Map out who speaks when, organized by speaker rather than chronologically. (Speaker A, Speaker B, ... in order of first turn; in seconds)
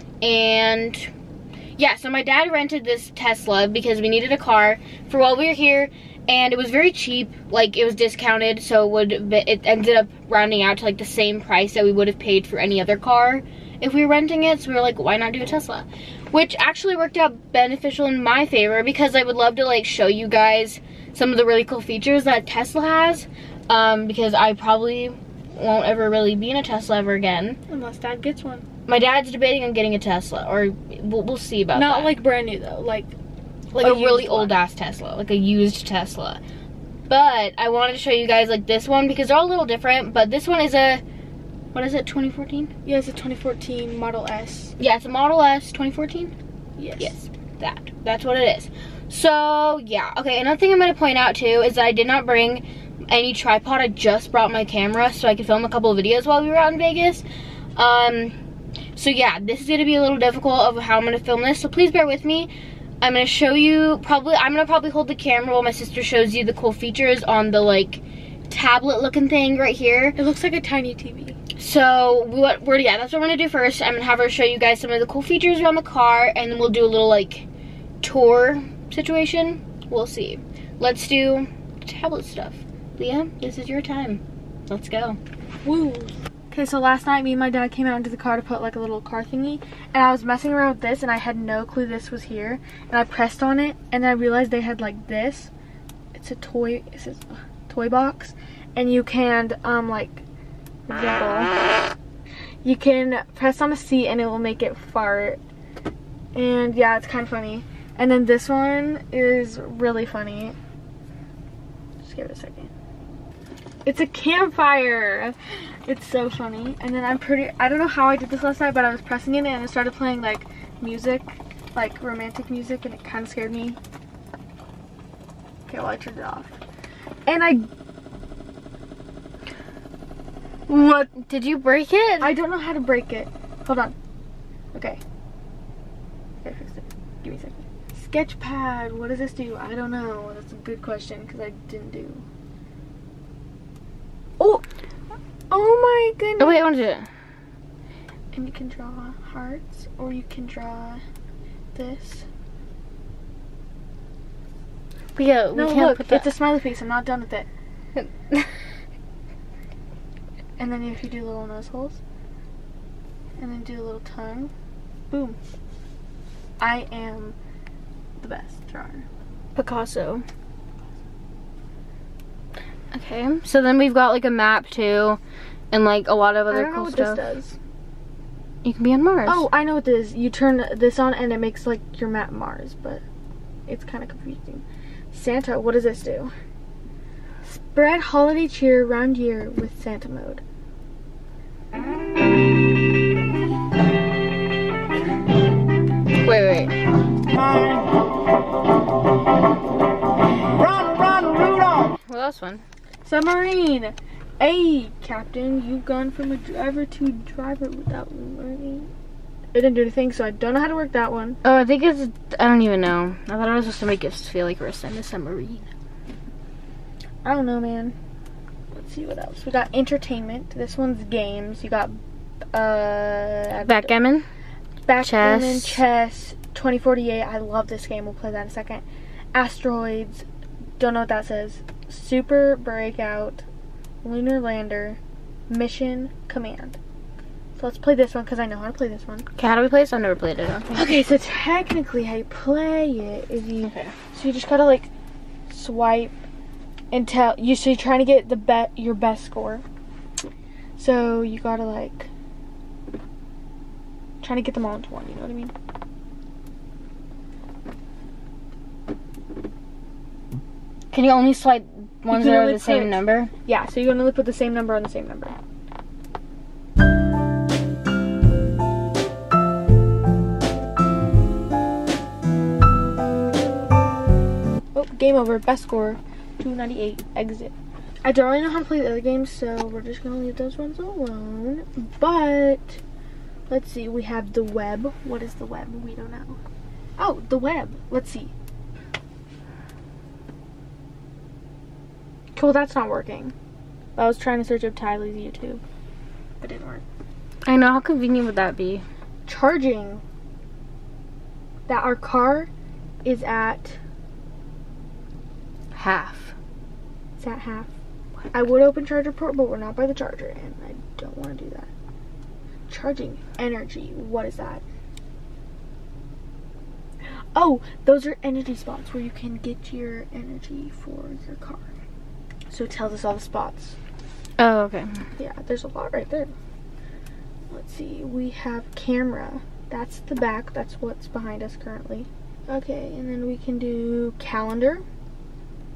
Speaker A: 0.2-1.1, 1.8-27.6, 28.9-32.2, 33.8-36.4, 37.1-41.0, 41.7-42.7, 44.8-46.3, 47.0-57.2, 57.8-58.4, 59.0-62.5, 63.0-70.2, 71.6-77.5, 78.0-85.2, 130.7-132.4, 146.4-147.1, 155.2-156.3, 169.6-170.2, 172.9-175.2, 175.7-177.2, 178.6-179.4, 196.2-196.8, 201.8-202.6, 211.4-215.7, 223.6-224.3, 225.0-225.8, 239.4-241.0, 243.6-243.9, 260.9-263.3, 297.5-298.9, 305.7-306.4, 324.4-325.0
Speaker B: 27.7-28.7, 31.7-33.1, 33.7-34.6, 42.9-44.8, 46.8-47.1, 70.2-71.4, 85.6-95.5, 96.1-100.2, 100.9-101.7, 102.6-105.4, 106.3-110.6, 112.0-112.7, 113.8-123.8, 125.7-126.6, 127.3-127.7, 132.2-133.9, 134.7-135.0, 136.4-142.2, 144.4-144.6, 145.5-146.7, 148.3-151.0, 151.7-152.3, 155.6-157.5, 160.6-162.0, 163.4-164.5, 165.1-165.4, 166.6-167.4, 168.2-169.1, 176.5-177.6, 179.3-183.0, 183.7-186.3, 187.4-190.4, 200.6-201.9, 203.0-208.9, 209.5-211.4, 217.2-218.0, 218.7-222.0, 222.5-223.9, 224.9-230.3, 230.8-233.5, 234.0-236.8, 237.6-239.3, 240.7-244.9, 245.5-246.1, 246.9-249.6, 250.8-252.1, 254.2-255.5, 262.1-265.4, 274.7-282.8, 283.5-286.4, 287.0-288.3, 292.4-293.3, 294.0-295.6, 296.4-296.8, 299.3-300.0, 301.7-302.5, 303.0-303.8, 307.2-307.7, 308.3-311.7, 312.7-314.6, 317.4-321.7, 322.5-323.8, 325.2-326.3, 327.5-334.8